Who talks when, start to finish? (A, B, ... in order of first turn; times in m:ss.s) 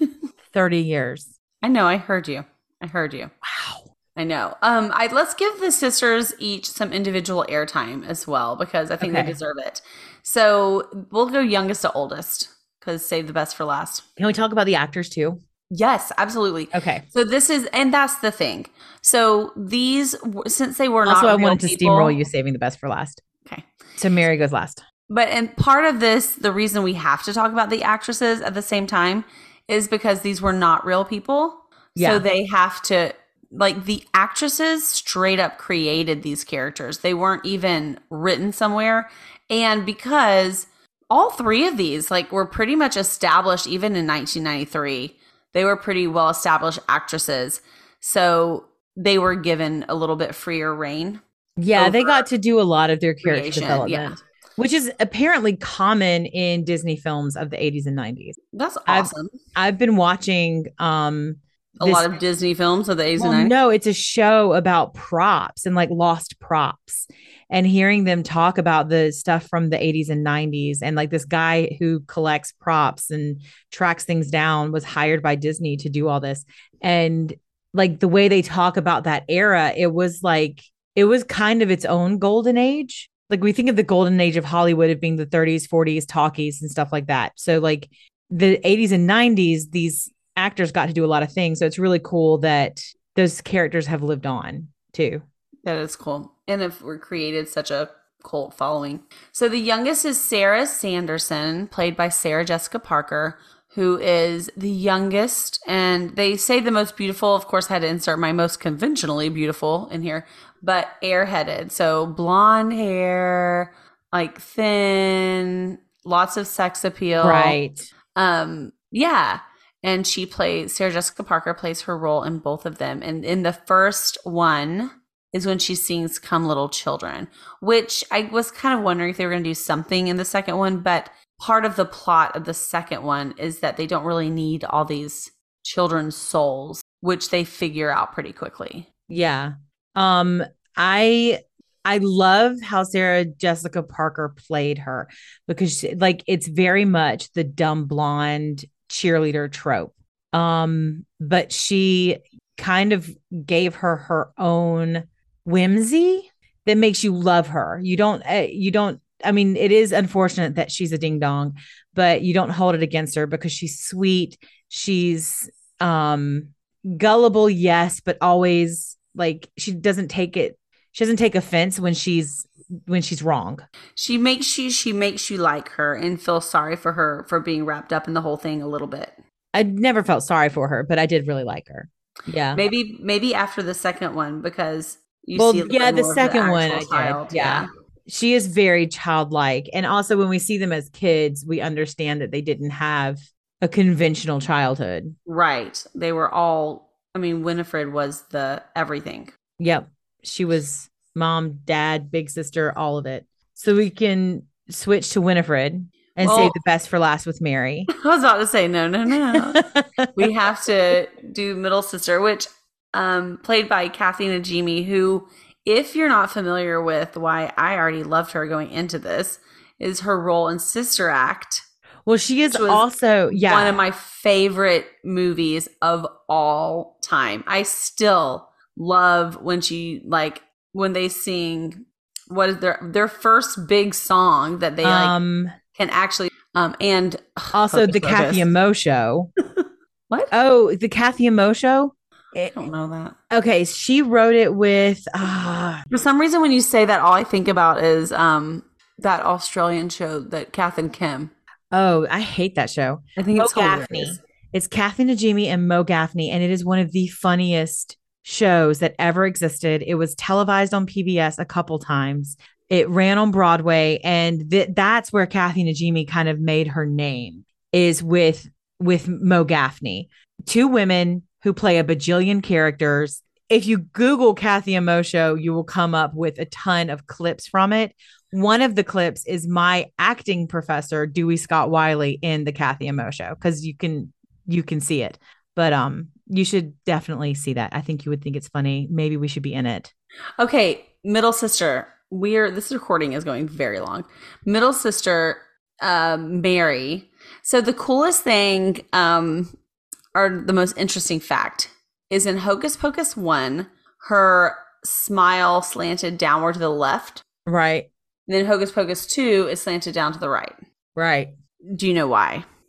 0:00.5-0:01.3 A
0:01.6-0:03.3 B
0:03.4-0:03.9 A
0:04.2-0:14.0 B
0:09.0-0:09.4 A
0:14.2-0:15.4 A
0:15.7-0:22.2 B
0:16.7-0:17.0 A
0:21.0-0:23.2 A
0:24.0-0:24.8 A
0:25.1-0:51.2 B
0:32.0-0:32.2 A
0:51.6-1:02.1 A
0:51.7-0:52.2 B
0:53.2-0:54.2 B
0:58.5-0:59.4 B
1:01.8-1:03.5 B
1:03.2-1:35.2 A
1:35.6-1:57.6 B
1:57.2-1:57.9 A
1:58.2-2:18.9 B
2:19.1-2:53.7 A
2:54.0-2:59.1 B
2:59.5-3:02.6 A
3:02.6-3:07.7 B
3:05.4-3:15.2 A
3:15.3-3:19.3 B
3:19.6-3:27.9 A
3:26.2-3:26.6 B
3:27.9-3:41.6 B
3:29.4-3:30.1 A
3:42.1-3:43.8 A
3:42.5-3:55.2 B
3:54.8-3:55.6 A
3:55.7-3:58.5 B
3:57.5-3:59.3 A
3:59.4-4:00.3 B
4:00.3-4:02.5 A
4:02.5-4:03.2 B
4:03.3-4:05.8 A
4:05.9-4:11.3 B
4:11.7-4:49.9 A
4:13.2-4:14.2 B
4:50.4-4:59.6 B
5:00.1-5:07.2 B
5:07.5-5:07.9 A
5:08.3-5:10.6 B
5:11.0-5:11.3 A
5:11.7-5:12.5 B